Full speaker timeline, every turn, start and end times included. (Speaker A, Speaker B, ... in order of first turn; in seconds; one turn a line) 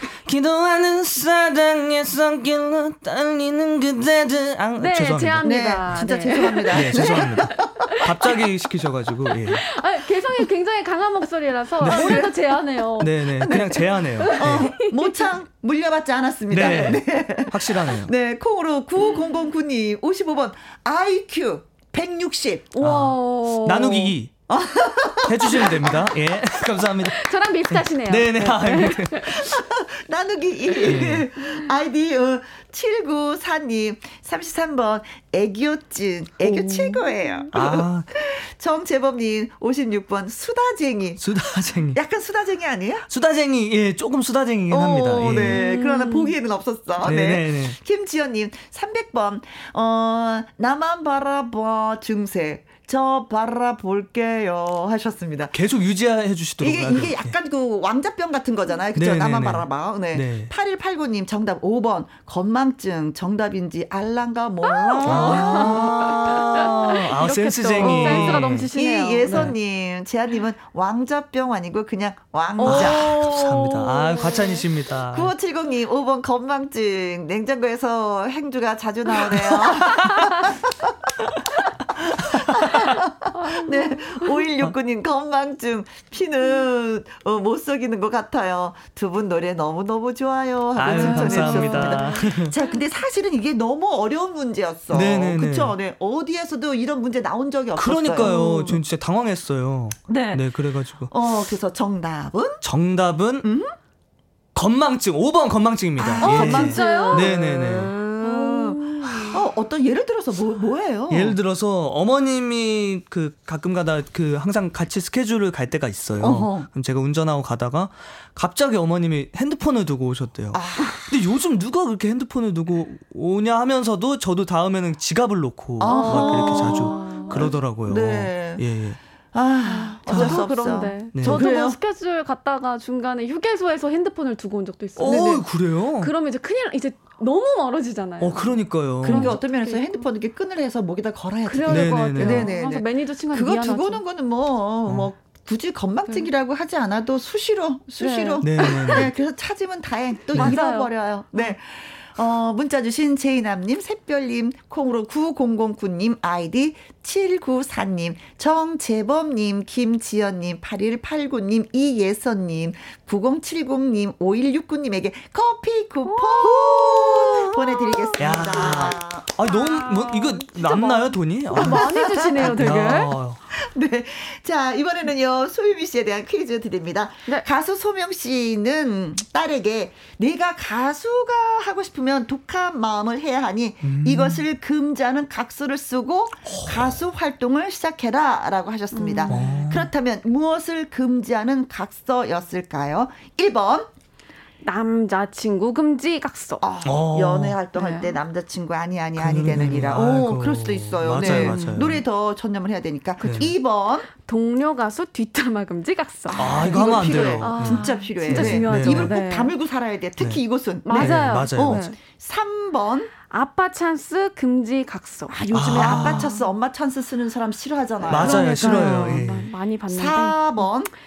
Speaker A: 0.2-5.6
Speaker B: 4.8-8.4
Speaker C: 5.4-7.9
Speaker A: 6.7-9.6
Speaker B: 9.3-15.3
Speaker A: 11.8-12.3
Speaker C: 11.8-12.4
Speaker A: 13.0-14.8
Speaker C: 13.4-22.7
Speaker A: 16.5-18.1
Speaker B: 22.7-24.2
Speaker A: 22.8-24.3
Speaker C: 24.5-26.1
Speaker A: 25.3-27.2
Speaker B: 26.9-29.4
Speaker A: 27.7-29.5
Speaker C: 29.4-43.1
Speaker A: 30.8-31.3
Speaker B: 36.5-37.5
Speaker A: 37.5-38.1
Speaker A: 41.2-42.0
Speaker A: 43.1-45.6
Speaker C: 44.7-55.6
Speaker B: 45.5-46.4
Speaker A: 47.0-47.8
Speaker A: 55.5-57.3
Speaker C: 56.6-67.0
Speaker A: 59.0-60.5
Speaker B: 64.6-69.5
Speaker A: 65.0-68.7
Speaker C: 67.8-74.3
Speaker A: 69.3-69.5
Speaker A: 72.6-75.3
Speaker B: 72.6-74.6
Speaker C: 75.1-80.9
Speaker C: 82.0-98.8
Speaker A: 82.5-82.9
Speaker B: 83.4-84.3
Speaker A: 90.8-92.5
Speaker B: 90.8-92.2
Speaker A: 94.9-95.7
Speaker A: 97.8-101.1
Speaker C: 100.1-102.6
Speaker A: 102.6-103.5
Speaker C: 103.4-103.8
Speaker A: 104.5-108.0
Speaker C: 106.0-111.4
Speaker B: 106.2-107.4
Speaker B: 108.2-109.4
Speaker A: 111.1-129.0
Speaker C: 116.2-116.7
Speaker C: 120.5-121.2
Speaker C: 125.8-128.7
Speaker B: 125.8-127.5
Speaker C: 129.3-131.8
Speaker B: 129.6-140.1
Speaker A: 130.1-130.5
Speaker A: 131.1-131.5
Speaker A: 135.0-136.1
Speaker C: 135.0-135.4
Speaker A: 138.2-139.4
Speaker C: 139.0-169.4
Speaker B: 141.5-144.0
Speaker A: 141.7-142.5
Speaker B: 148.0-149.1
Speaker A: 148.4-149.1
Speaker B: 150.3-151.5
Speaker B: 166.1-173.2
Speaker A: 168.2-173.4
Speaker C: 171.5-173.0
Speaker C: 173.5-193.9
Speaker A: 183.8-184.4
Speaker B: 188.9-189.5
Speaker A: 189.3-189.9
Speaker B: 194.6-196.6
Speaker C: 196.6-204.1
Speaker A: 196.8-197.7
Speaker B: 197.7-198.2
Speaker A: 199.2-202.0
Speaker B: 201.2-201.8
Speaker A: 203.2-203.6
Speaker B: 204.2-209.6
Speaker C: 206.3-213.1
Speaker A: 206.4-209.2
Speaker B: 210.8-212.0
Speaker A: 210.9-211.9
Speaker B: 213.3-216.4
Speaker C: 215.3-219.3
Speaker A: 215.5-216.4
Speaker B: 218.1-220.7
Speaker A: 218.1-219.5
Speaker C: 219.9-220.9